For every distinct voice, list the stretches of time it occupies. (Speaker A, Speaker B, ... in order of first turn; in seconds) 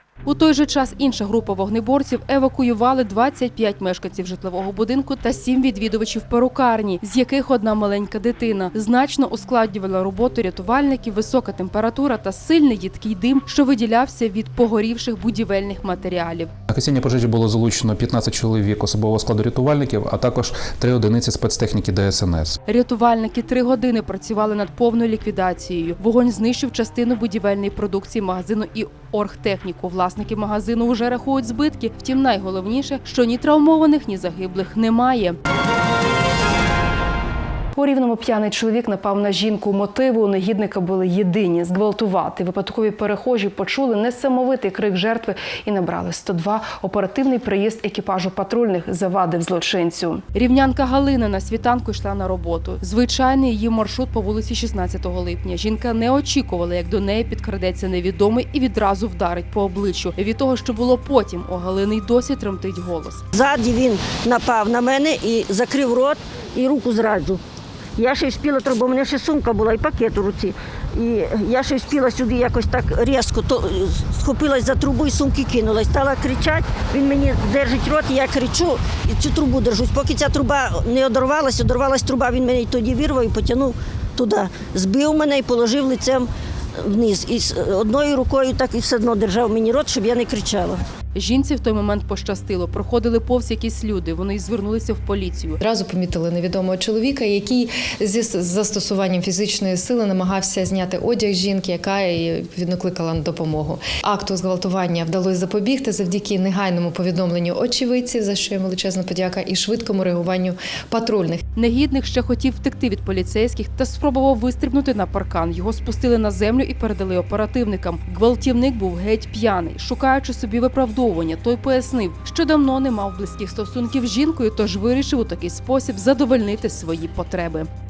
Speaker A: 0.3-16.5, 22.7-35.4, 50.3-63.2, 91.1-95.6, 111.6-127.7
Speaker B: 16.7-22.6
Speaker C: 37.8-50.2
Speaker D: 63.3-67.4, 68.0-86.3, 86.8-90.8
Speaker E: 95.6-111.4